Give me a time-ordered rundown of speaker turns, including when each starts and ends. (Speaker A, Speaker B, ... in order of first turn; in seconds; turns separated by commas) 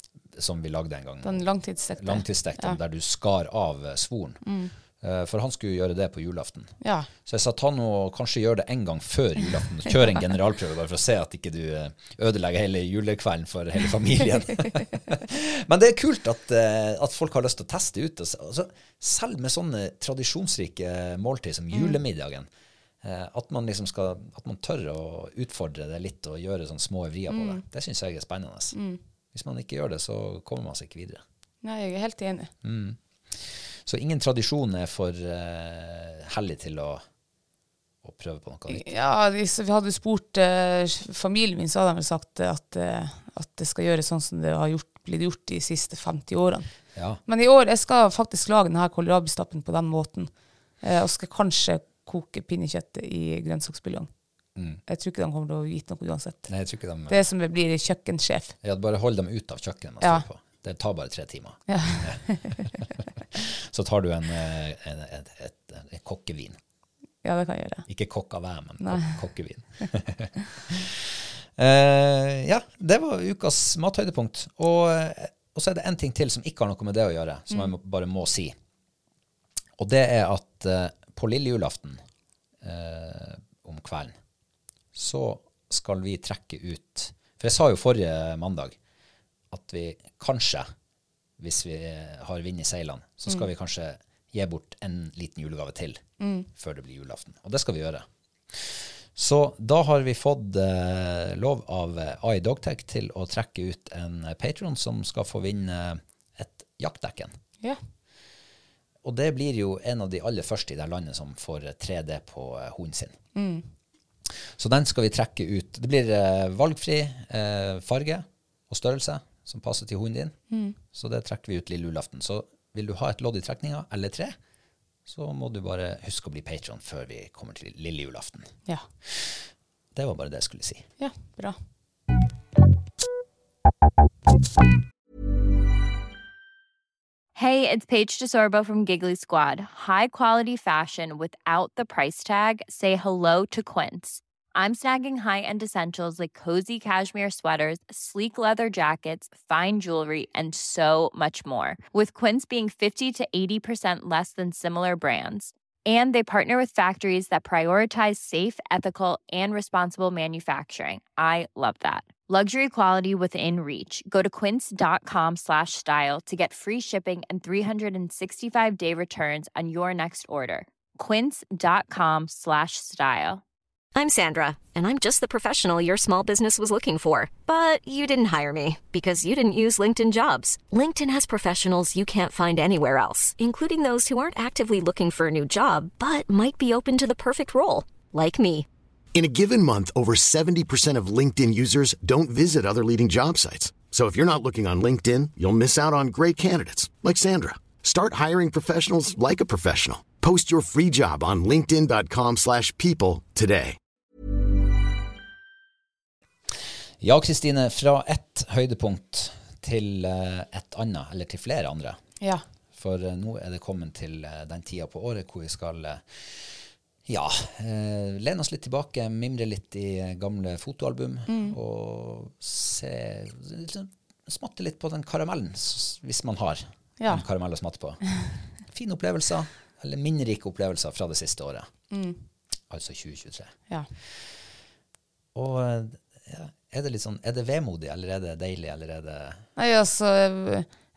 Speaker A: 0.3-1.4, Speaker B: 1.2-2.8, Speaker A: 2.0-4.4, Speaker B: 4.4-4.7, Speaker A: 5.0-22.5, Speaker B: 6.8-7.1, Speaker B: 21.7-22.0, Speaker A: 23.0-28.8, Speaker B: 27.3-27.6, Speaker B: 28.7-29.0, Speaker A: 29.3-31.2, Speaker B: 31.6-32.5, Speaker A: 32.6-37.0, Speaker A: 38.0-38.9, Speaker B: 38.7-46.7, Speaker A: 46.9-47.2, Speaker B: 47.3-50.3, Speaker B: 50.8-54.1, Speaker A: 54.5-54.8, Speaker B: 54.9-56.5, Speaker A: 56.5-57.2, Speaker B: 57.1-58.5, Speaker A: 58.6-66.6, Speaker B: 61.7-62.7, Speaker B: 67.2-67.8, Speaker A: 67.9-78.5, Speaker B: 68.8-69.1, Speaker A: 79.8-82.0, Speaker A: 82.6-84.1, Speaker A: 84.9-88.8, Speaker A: 89.5-90.7, Speaker A: 91.4-96.0, Speaker B: 96.2-96.5, Speaker A: 96.5-107.4, Speaker A: 109.0-113.2, Speaker B: 113.3-113.6, Speaker A: 114.5-120.4, Speaker B: 120.5-120.8, Speaker A: 120.9-124.3, Speaker A: 125.0-130.8, Speaker B: 131.0-131.6, Speaker C: 137.3-173.4, Speaker D: 173.9-188.7, Speaker E: 189.1-203.8, Speaker A: 207.0-212.0, Speaker A: 212.7-228.0, Speaker B: 221.3-221.6, Speaker A: 228.7-231.7, Speaker B: 231.9-232.2, Speaker A: 232.7-233.5, Speaker A: 235.3-239.4, Speaker B: 239.6-240.7